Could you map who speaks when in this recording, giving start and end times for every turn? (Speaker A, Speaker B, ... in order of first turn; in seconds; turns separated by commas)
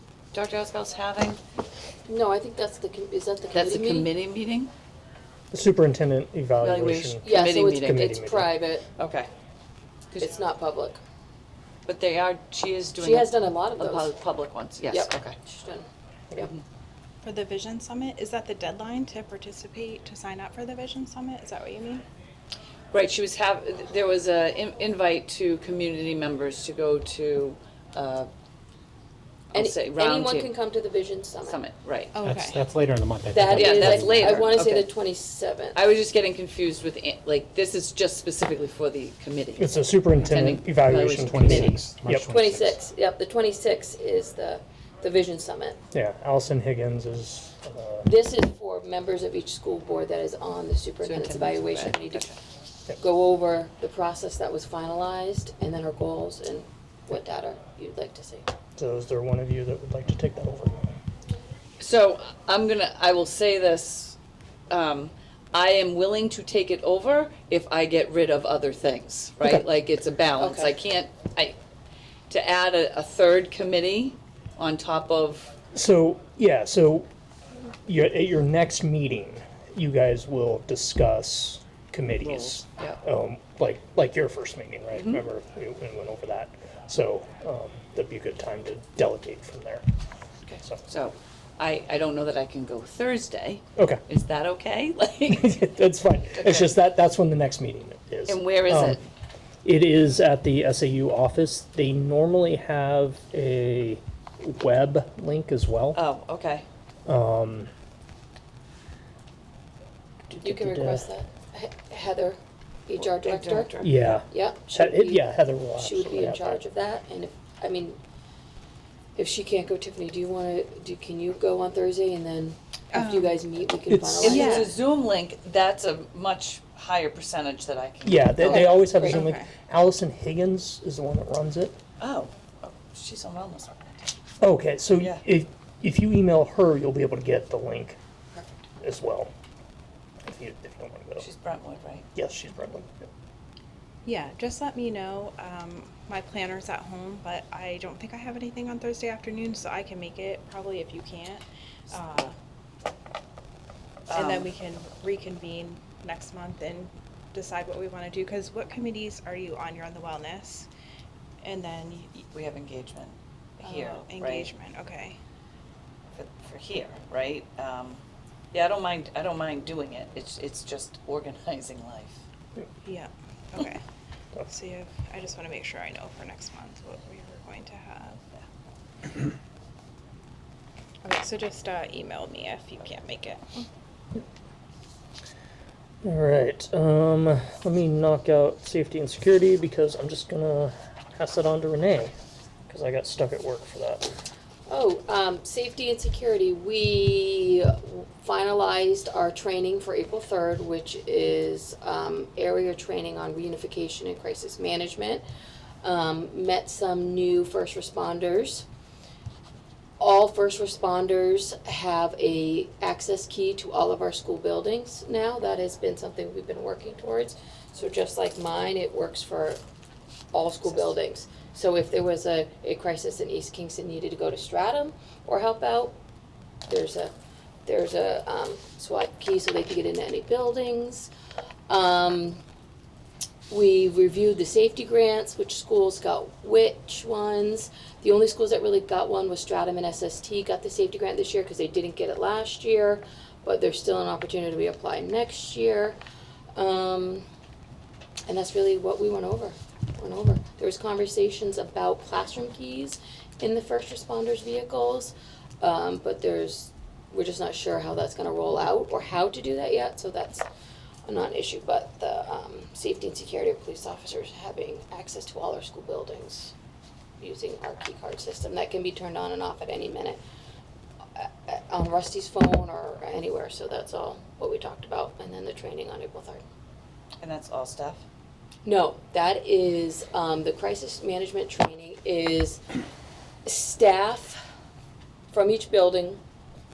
Speaker A: 0.3-1.4, Speaker B: 2.1-4.1, Speaker A: 3.5-4.7, Speaker C: 5.5-8.5, Speaker A: 6.6-8.1, Speaker B: 7.2-8.8, Speaker A: 8.9-9.3, Speaker B: 10.2-11.0, Speaker A: 11.8-15.3, Speaker B: 13.0-14.1, Speaker B: 14.9-16.5, Speaker D: 17.2-22.0, Speaker A: 22.9-28.3, Speaker B: 29.5-31.6, Speaker A: 29.5-30.5, Speaker A: 31.4-32.2, Speaker D: 32.1-32.6, Speaker E: 32.2-34.4, Speaker B: 33.3-35.8, Speaker A: 33.5-34.9, Speaker A: 35.7-41.8, Speaker C: 39.5-42.3, Speaker E: 40.9-42.8, Speaker B: 41.5-41.7, Speaker B: 42.3-45.8, Speaker C: 45.9-48.1, Speaker B: 48.0-52.3, Speaker A: 51.0-52.4, Speaker B: 53.0-58.5, Speaker C: 58.8-61.0, Speaker A: 61.8-64.2, Speaker A: 64.7-71.6, Speaker B: 70.4-70.7, Speaker A: 72.3-75.5, Speaker C: 75.7-77.1, Speaker C: 77.8-89.8, Speaker A: 82.2-83.0, Speaker A: 84.9-85.2, Speaker A: 90.4-95.6, Speaker C: 95.3-99.0, Speaker A: 96.3-96.7, Speaker A: 98.3-99.0, Speaker C: 99.6-106.0, Speaker A: 105.9-106.7, Speaker C: 107.0-107.7, Speaker C: 110.3-111.1, Speaker B: 110.4-113.7, Speaker A: 113.0-114.1, Speaker C: 113.8-116.6, Speaker B: 114.2-115.2, Speaker B: 115.8-118.0, Speaker B: 119.2-124.7, Speaker D: 122.9-123.4, Speaker C: 123.9-124.5, Speaker A: 124.2-128.8, Speaker D: 124.2-124.7, Speaker C: 128.0-131.8, Speaker B: 128.4-129.2, Speaker D: 128.9-129.5, Speaker A: 132.0-133.8, Speaker C: 134.4-138.0, Speaker A: 134.9-135.2, Speaker C: 138.8-139.3, Speaker C: 140.2-141.3, Speaker A: 141.2-142.1, Speaker C: 142.1-143.1, Speaker D: 144.0-152.3, Speaker A: 154.1-154.5, Speaker D: 154.1-160.7, Speaker D: 161.4-162.2, Speaker A: 162.3-164.5, Speaker D: 163.6-165.2, Speaker A: 166.1-172.2, Speaker D: 172.8-173.8, Speaker D: 174.5-178.3, Speaker D: 181.0-183.7, Speaker C: 186.0-192.1, Speaker C: 192.7-194.1, Speaker B: 194.7-205.2, Speaker B: 205.8-208.6, Speaker B: 210.0-219.6, Speaker B: 220.3-225.9, Speaker A: 220.6-220.9, Speaker B: 226.7-227.1, Speaker B: 227.7-231.1, Speaker B: 231.7-232.4, Speaker B: 233.5-245.9, Speaker B: 246.5-247.2, Speaker B: 248.3-260.4, Speaker B: 261.1-266.5, Speaker B: 267.2-270.2, Speaker B: 271.1-276.4, Speaker A: 277.2-278.0, Speaker B: 278.6-282.6, Speaker B: 283.4-284.4, Speaker B: 285.3-286.2